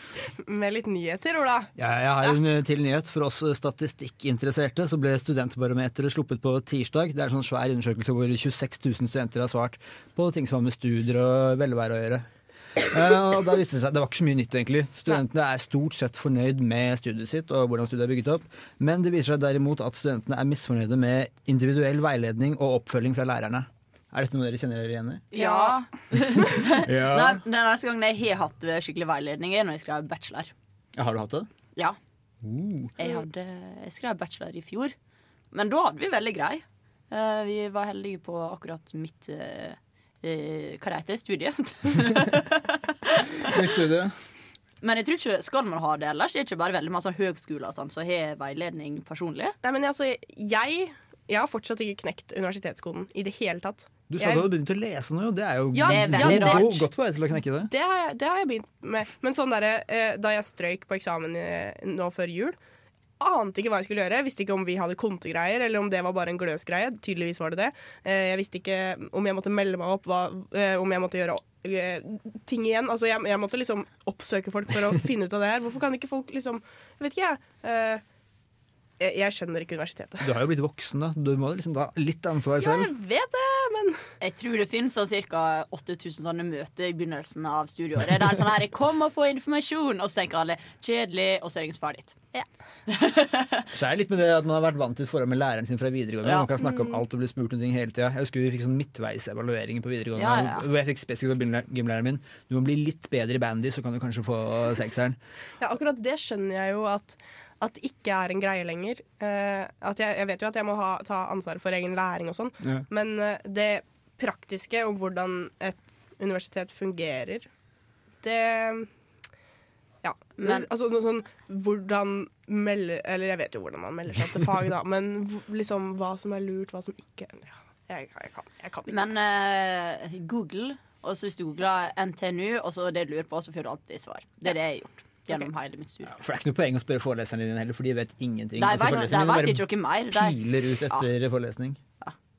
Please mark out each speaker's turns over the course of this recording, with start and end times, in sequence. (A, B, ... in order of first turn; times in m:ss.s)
0:00.4-0:02.4 A
0:01.8-0:12.2 B
0:12.8-0:25.2 B
0:25.3-0:30.5 C
0:25.3-0:25.8 A
0:26.3-0:27.4 B
0:30.9-0:31.5 B
0:32.4-0:32.9 B
0:33.0-0:34.9 C
0:35.5-0:43.5 C
0:43.4-0:44.1 B
0:44.8-0:49.5 C
0:49.6-0:54.5 A
0:54.1-0:57.7 B
0:55.8-0:56.8 A
0:55.8-0:56.8 C
0:57.7-1:02.6 A
1:03.2-1:18.0 A
1:19.0-1:20.3 A
1:20.2-1:22.9 B
1:22.6-1:24.0 A
1:24.2-1:32.2 C
1:32.9-1:33.7 C
1:33.7-1:45.2 B
1:36.2-1:36.5 C
1:40.2-1:40.7 C
1:45.6-1:57.5 A
1:58.2-1:58.9 A
2:00.0-2:09.0 A
2:00.4-2:00.7 C
2:08.9-2:16.1 C
2:16.0-2:21.8 B
2:18.6-2:20.4 C